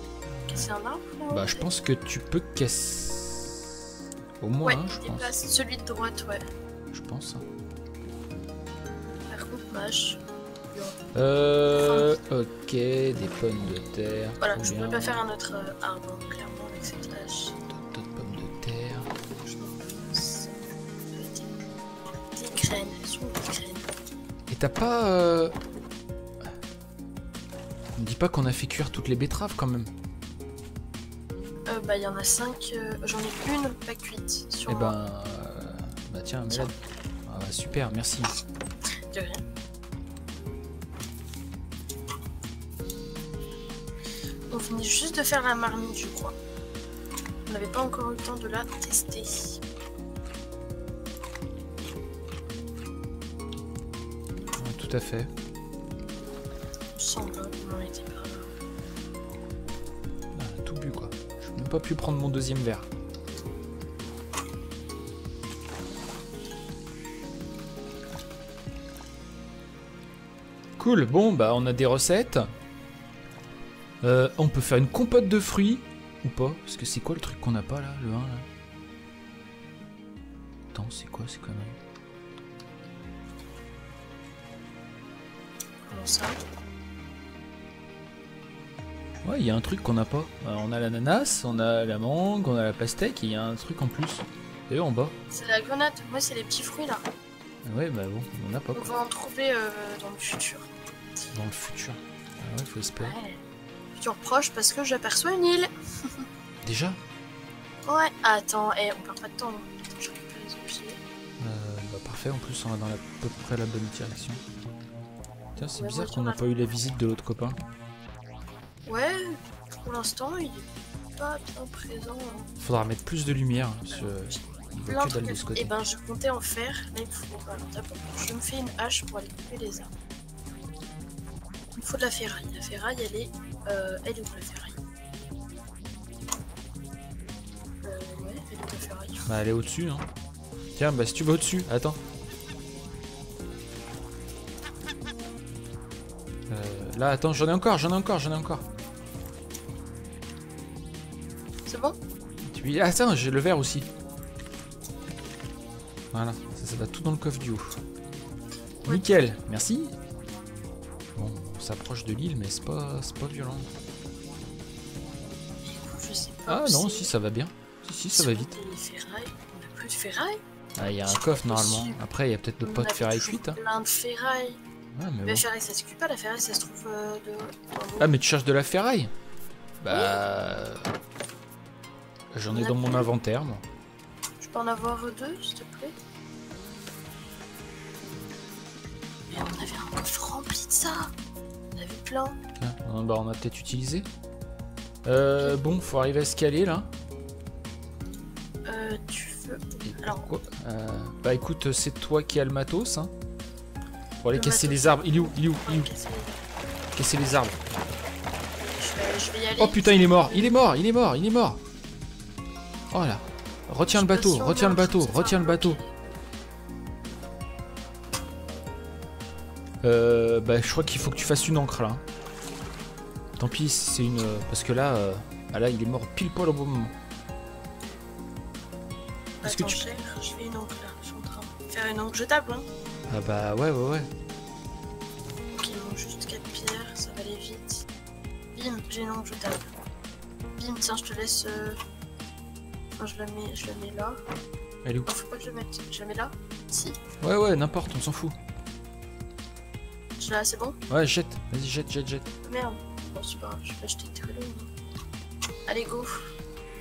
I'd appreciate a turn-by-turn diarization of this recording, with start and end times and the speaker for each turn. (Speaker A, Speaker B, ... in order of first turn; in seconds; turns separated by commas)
Speaker A: 0.3-0.7, Speaker B: 0.5-1.7, Speaker A: 1.3-3.8, Speaker A: 4.4-5.3, Speaker B: 4.6-6.5, Speaker A: 6.9-7.5, Speaker B: 9.3-10.2, Speaker B: 10.7-11.0, Speaker A: 11.1-15.2, Speaker B: 11.7-12.2, Speaker B: 14.4-17.6, Speaker A: 17.7-19.1, Speaker B: 19.4-20.5, Speaker B: 21.1-21.6, Speaker B: 22.3-23.9, Speaker A: 24.5-25.6, Speaker A: 28.0-29.9, Speaker B: 31.7-35.0, Speaker A: 34.7-36.7, Speaker B: 36.5-36.7, Speaker A: 37.3-38.3, Speaker B: 39.1-39.4, Speaker B: 44.5-46.4, Speaker B: 47.5-49.6, Speaker A: 54.6-55.3, Speaker B: 56.9-58.5, Speaker A: 60.4-62.9, Speaker A: 70.8-72.4, Speaker A: 74.0-78.5, Speaker A: 80.7-81.8, Speaker B: 85.9-86.4, Speaker A: 89.2-95.2, Speaker B: 95.3-97.0, Speaker A: 97.6-98.9, Speaker B: 98.7-100.7, Speaker A: 101.3-103.2, Speaker B: 103.0-103.4, Speaker B: 104.0-106.2, Speaker A: 106.6-107.0, Speaker B: 107.8-111.0, Speaker A: 111.4-114.4, Speaker A: 115.6-117.6, Speaker B: 115.8-116.7, Speaker B: 118.8-122.5, Speaker A: 122.6-125.7, Speaker B: 123.9-129.9, Speaker B: 131.8-134.8, Speaker B: 137.8-139.3, Speaker A: 139.3-140.1, Speaker A: 140.8-142.0, Speaker A: 146.5-148.7, Speaker B: 151.7-152.0, Speaker A: 152.4-153.9, Speaker A: 156.1-157.8, Speaker B: 158.8-159.3, Speaker A: 158.9-159.9, Speaker A: 161.2-163.7, Speaker B: 165.6-167.1, Speaker A: 166.5-168.5, Speaker B: 168.1-170.4, Speaker A: 170.8-173.6, Speaker B: 171.1-172.0, Speaker B: 172.6-174.6, Speaker A: 174.9-175.4, Speaker B: 175.2-178.1, Speaker A: 178.0-179.1, Speaker A: 179.8-180.9, Speaker B: 179.9-180.2, Speaker A: 182.3-183.6, Speaker B: 182.5-183.1, Speaker B: 184.4-185.9, Speaker B: 189.3-191.1, Speaker B: 191.8-192.4, Speaker A: 192.6-194.1, Speaker A: 195.0-196.9, Speaker B: 195.4-195.7, Speaker B: 198.7-200.3, Speaker A: 199.8-203.1, Speaker A: 204.2-205.9, Speaker B: 204.3-206.4, Speaker A: 206.9-207.6, Speaker B: 208.7-210.5, Speaker A: 209.6-211.6, Speaker A: 212.9-215.8, Speaker B: 213.9-215.9, Speaker A: 219.8-222.0, Speaker A: 223.4-226.9, Speaker B: 229.4-232.7, Speaker A: 229.4-229.8, Speaker A: 233.1-234.1, Speaker B: 235.5-237.9, Speaker B: 238.6-239.7, Speaker B: 240.5-241.8, Speaker B: 243.0-244.2, Speaker A: 244.8-245.1, Speaker B: 245.1-247.0, Speaker A: 247.2-248.4, Speaker B: 250.2-250.8, Speaker A: 250.9-252.3, Speaker B: 252.4-254.7, Speaker B: 255.7-256.3